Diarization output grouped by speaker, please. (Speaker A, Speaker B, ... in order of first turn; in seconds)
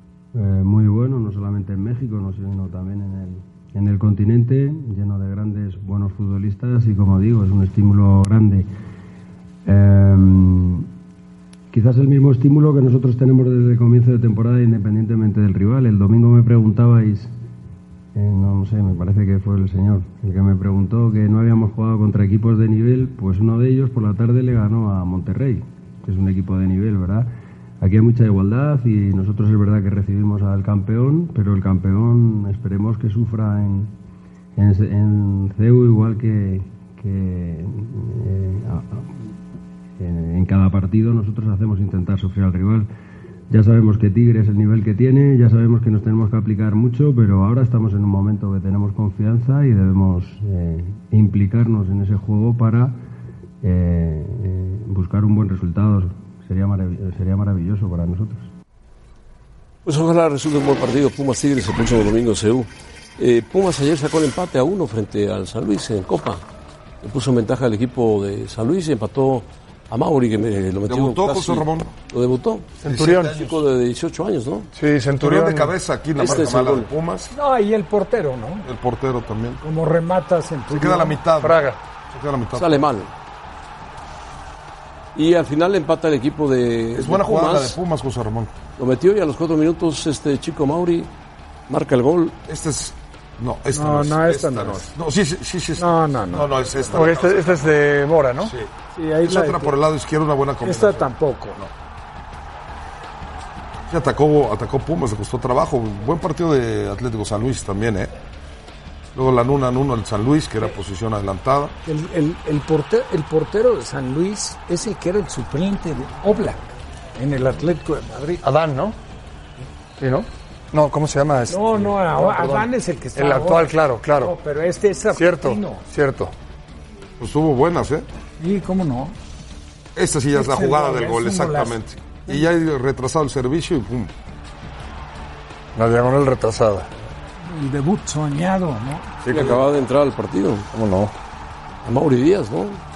Speaker A: 0.3-8.7, 9.7-10.9, 11.7-17.3, 18.1-27.3, 27.8-33.9, 34.6-39.3, 40.0-42.9, 43.5-53.0, 53.6-58.5
Speaker B: 59.9-66.4, 67.0-72.8, 73.3-74.7, 76.2-76.9, 82.6-83.1, 85.2-87.8, 88.8-91.1, 91.7-92.4, 139.3-140.7, 141.8-142.8
Speaker C: 70.9-71.9, 72.8-73.6, 75.2-77.3, 78.7-79.6, 80.7-82.8, 87.0-88.5, 92.5-97.8, 98.4-98.7, 99.2-101.7, 103.9-108.1, 109.2-111.7, 127.2-128.1, 130.0-134.1
Speaker D: 72.8-73.4, 74.8-75.8, 81.4-81.8, 96.9-98.5, 118.4-119.0, 120.0-124.3, 125.1-126.3, 135.8-136.9, 139.2-139.7, 140.7-141.1
Speaker E: 77.3-78.7, 79.6-81.2, 93.7-94.9, 95.8-96.5, 99.0-99.8, 100.6-101.6, 111.8-116.6, 117.2-118.4, 121.5-125.8, 128.4-129.2, 130.3-132.4, 137.4-139.2